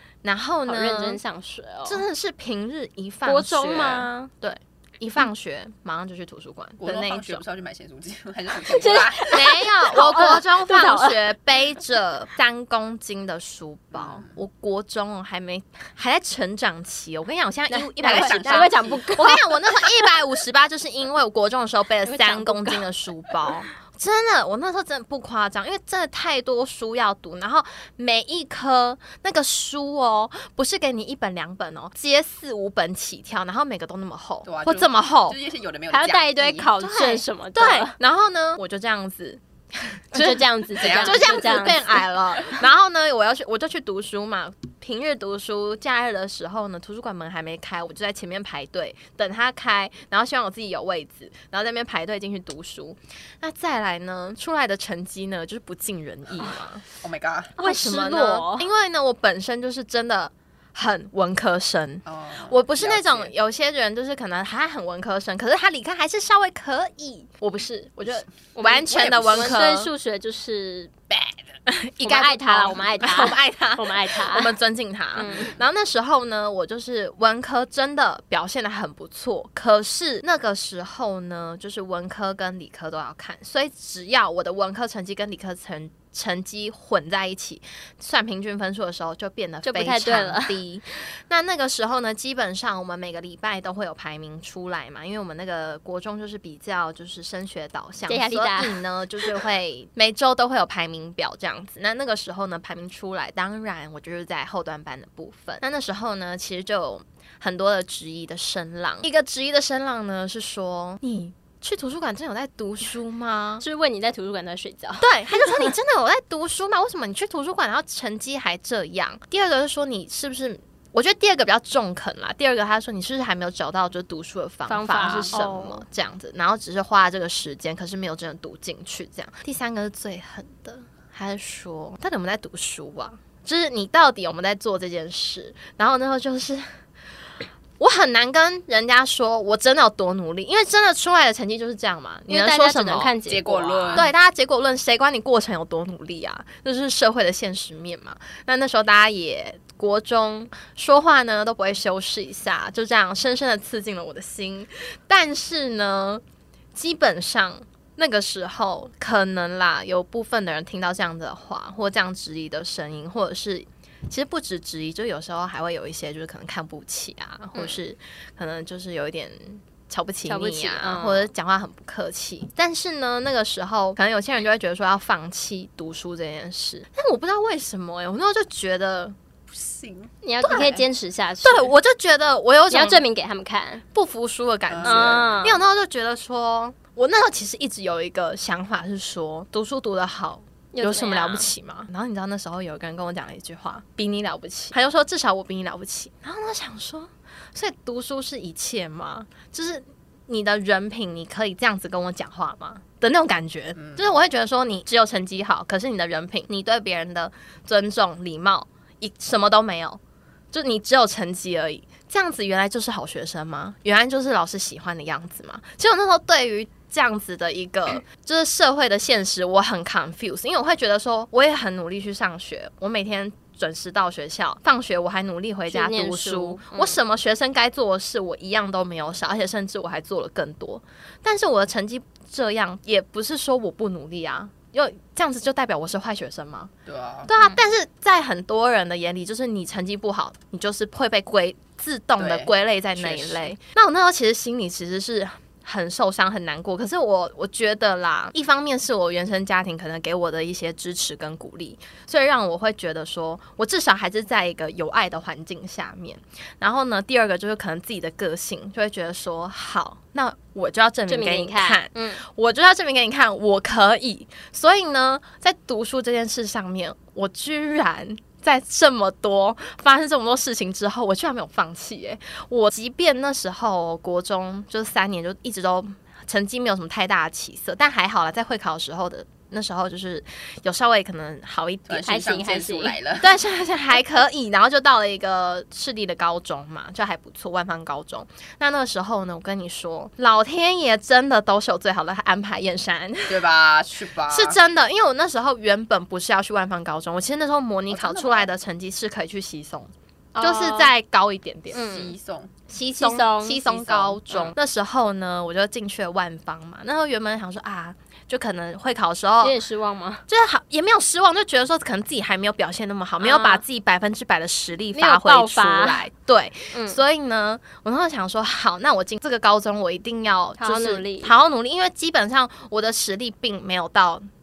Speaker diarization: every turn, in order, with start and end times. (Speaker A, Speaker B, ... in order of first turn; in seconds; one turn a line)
Speaker A: 0.2-1.2
Speaker B: 0.7-2.0
Speaker A: 1.9-7.4
Speaker B: 3.2-4.3
Speaker C: 6.8-9.4
Speaker B: 8.7-11.2
Speaker A: 9.3-35.4
Speaker C: 13.9-14.3
Speaker B: 17.7-20.0
Speaker C: 18.0-19.1
Speaker B: 22.0-22.8
Speaker C: 34.4-36.7
Speaker B: 35.9-37.9
Speaker A: 36.8-56.8
Speaker B: 40.1-42.0
Speaker C: 40.8-41.6
Speaker C: 57.0-57.5
Speaker B: 57.6-58.7
Speaker A: 57.6-69.9
Speaker C: 62.0-63.3
Speaker B: 68.6-70.9
Speaker C: 68.7-69.6
Speaker C: 71.1-71.4
Speaker A: 71.7-113.6
Speaker B: 72.0-74.5
Speaker B: 75.2-75.5
Speaker B: 89.6-90.5
Speaker B: 98.1-98.8
Speaker B: 113.6-115.7
Speaker A: 115.0-136.7
Speaker B: 124.7-125.8
Speaker A: 137.8-143.2
Speaker B: 142.3-144.1
Speaker C: 143.3-144.1
Speaker A: 143.9-156.2
Speaker A: 156.7-179.1
Speaker B: 170.2-171.3
Speaker C: 179.5-180.1
Speaker B: 180.2-181.7
Speaker A: 180.4-180.8
Speaker A: 181.4-183.0
Speaker B: 182.7-183.8
Speaker A: 183.9-210.0
Speaker C: 184.7-185.4
Speaker B: 184.8-185.6
Speaker B: 190.7-191.5
Speaker C: 203.8-204.1
Speaker A: 210.5-236.7
Speaker B: 225.7-227.0
Speaker C: 236.8-237.3
Speaker A: 237.3-282.1
Speaker C: 242.2-243.5
Speaker B: 261.1-262.2
Speaker C: 281.9-283.4
Speaker B: 282.1-282.9
Speaker A: 283.2-293.5
Speaker C: 293.3-294.6
Speaker A: 294.3-301.9
Speaker C: 297.9-298.5
Speaker B: 300.3-300.9
Speaker B: 301.7-302.1
Speaker C: 301.7-302.5
Speaker A: 302.7-309.6
Speaker B: 302.8-304.5
Speaker C: 304.1-304.5
Speaker B: 309.4-310.2
Speaker A: 310.3-324.2
Speaker B: 313.2-313.6
Speaker B: 314.9-316.0
Speaker B: 316.7-317.0
Speaker B: 320.6-321.3